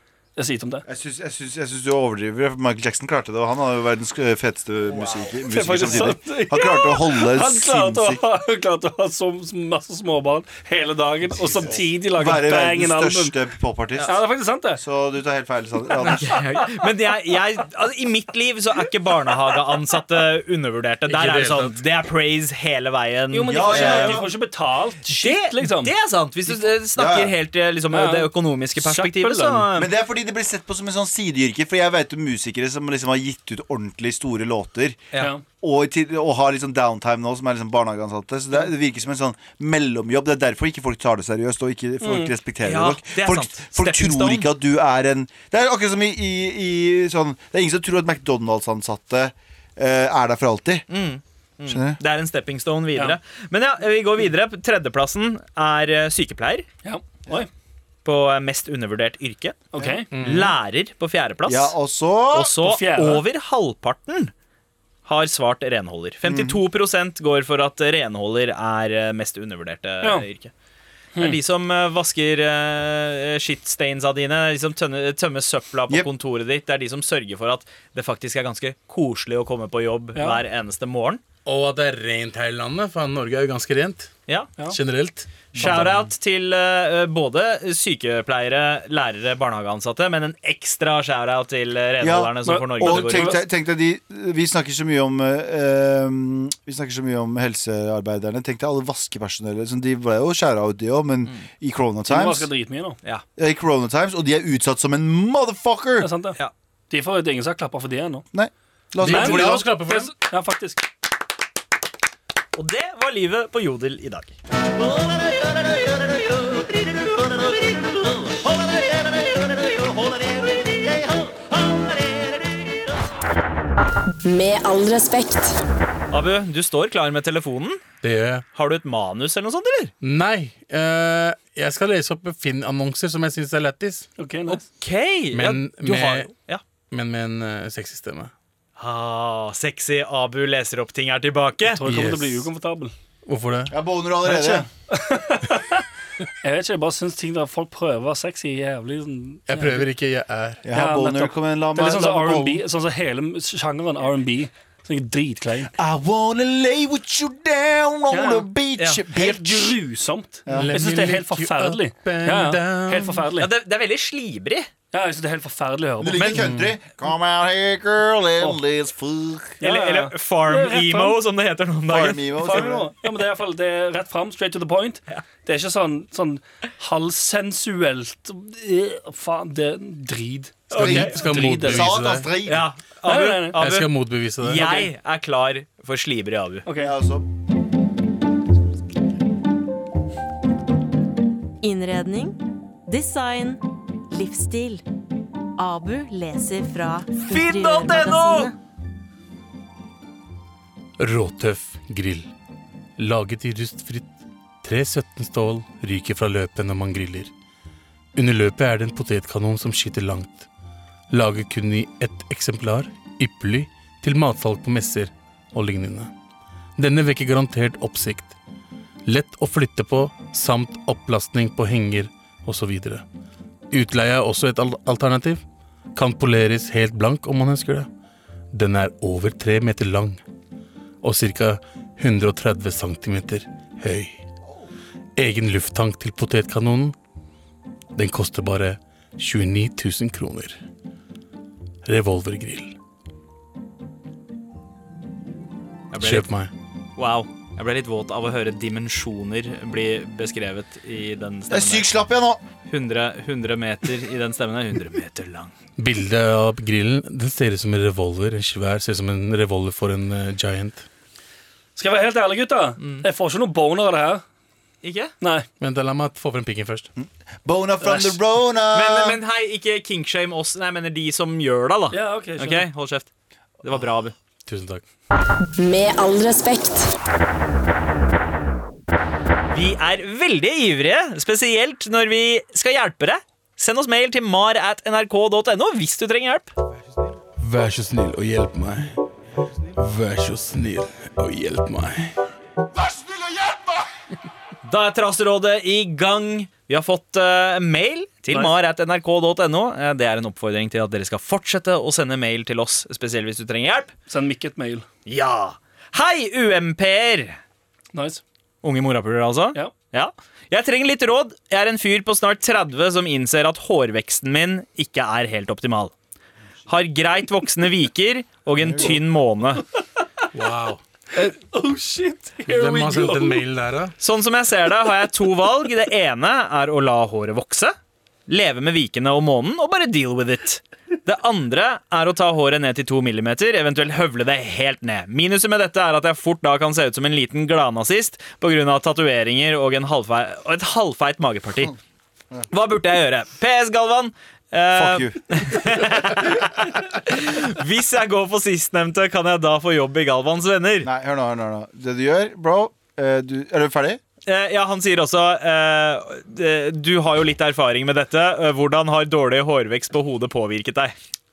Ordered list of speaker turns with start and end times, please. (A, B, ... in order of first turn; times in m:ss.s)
0:00.4-0:00.8 A
0:00.8-0:08.2 B
0:04.9-0:05.3 C
0:05.4-0:13.3 A
0:05.8-0:06.1 C
0:11.6-0:14.2 B
0:14.0-0:14.8 A
0:14.8-0:16.4 B
0:16.0-0:24.3 C
0:21.1-0:21.8 D
0:23.3-0:25.9 A
0:23.5-0:24.3 B
0:25.1-0:29.9 C
0:26.9-0:27.4 B
0:27.9-0:29.7 A
0:29.7-0:35.1 B
0:35.2-0:35.4 A
0:35.6-0:50.8 B
0:42.0-0:42.3 A
0:42.6-0:44.5 C
0:50.9-0:56.7 C
0:51.7-0:52.0 B
0:56.8-0:57.5 A
0:58.0-1:01.7 C
0:59.7-1:00.1 A
0:59.8-1:00.0 B
1:00.1-1:00.5 D
1:01.4-1:02.5 B
1:02.3-1:04.3 C
1:02.6-1:03.2 A
1:05.0-1:10.5 C
1:06.2-1:06.6 B
1:11.2-1:21.2 C
1:20.2-1:20.4 A
1:21.4-1:24.1 D
1:24.7-1:25.9 D
1:25.5-1:25.9 B
1:25.5-1:33.4 C
1:32.0-1:42.5 B
1:32.4-1:33.4 A
1:42.1-1:43.0 A
1:43.4-1:46.1 B
1:46.0-1:46.4 A
1:46.9-1:48.2 A
1:48.3-1:49.6 B
1:49.0-1:50.1 D
1:49.0-1:50.8 A
1:52.5-1:54.3 C
2:04.2-2:05.6 E
2:06.1-2:07.8 C
2:08.0-2:08.4 D
2:08.5-2:09.9 C
2:10.0-2:14.1 D
2:14.2-2:14.6 A
2:14.5-2:16.6 C
2:15.3-2:16.3 D
2:16.9-2:18.3 D
2:18.8-2:21.8 C
2:21.7-2:22.9 A
2:21.8-2:22.5 D
2:23.2-2:23.7 D
2:23.7-2:24.7 B
2:24.2-2:25.8 A
2:26.4-2:29.8 A
2:29.5-2:30.6 D
2:30.6-2:32.6 B
2:30.7-2:35.7 A
2:35.8-2:39.7 B
2:38.1-2:38.4 A
2:38.8-2:39.0 C
2:39.1-2:43.5 A
2:40.5-2:40.7 B
2:40.5-2:43.3 D
2:43.4-2:44.7 C
2:44.9-2:46.3 A
2:46.0-2:49.6 B
2:46.1-2:46.4 C
2:46.4-2:46.7 D
2:49.6-2:51.2 A
2:49.6-2:52.4 C
2:51.9-2:52.9 B
2:52.4-3:01.9 A
3:00.7-3:01.1 C
3:00.7-3:02.3 D
3:00.8-3:02.6 B
3:02.4-3:06.6 C
3:03.0-3:03.6 A
3:03.6-3:04.7 D
3:04.6-3:04.9 A
3:06.6-3:06.9 A
3:06.8-3:07.2 B
3:11.6-3:14.8 F
3:15.6-3:18.5 F
3:17.3-3:18.5 C
3:21.0-3:22.3 D
3:23.0-3:24.1 D
3:24.6-3:27.3 D
3:28.1-3:30.5 D
3:31.1-3:36.1 D
3:36.8-3:38.4 D
3:39.0-3:43.0 D
3:43.7-3:45.4 D
3:45.9-3:47.9 D
3:48.5-3:50.2 D
3:51.0-3:54.2 D
3:55.2-3:56.9 D
3:58.0-4:00.6 D
4:01.8-4:02.7 D
4:05.9-4:06.3 C
4:06.0-4:06.5 D
4:07.0-4:11.9 C
4:11.5-4:12.4 B
4:12.7-4:15.5 C
4:15.8-4:20.8 D
4:21.8-4:24.2 A
4:22.8-4:23.0 C
4:24.8-4:25.1 C
4:25.2-4:25.5 A
4:25.6-4:26.9 D
4:27.0-4:29.2 B
4:27.8-4:28.2 A
4:28.7-4:33.1 C
4:31.9-4:32.7 A
4:33.6-4:34.1 C
4:34.4-4:34.8 D
4:35.6-4:36.9 E
4:39.5-4:46.5 C
4:47.4-4:48.9 D
4:49.8-4:52.1 D
4:53.2-4:53.6 D
4:54.6-5:03.9 C
5:04.1-5:04.8 A
5:05.0-5:07.4 C
5:07.9-5:08.2 A
5:08.6-5:15.9 C
5:16.7-5:19.6 C
5:20.3-5:20.8 D
5:21.1-5:23.4 A
5:22.4-5:23.9 D
5:24.0-5:27.7 C
5:28.3-5:41.7 C
5:42.5-5:50.9 C
5:44.7-5:46.0 B
5:50.8-5:54.0 B
5:54.2-6:00.9 C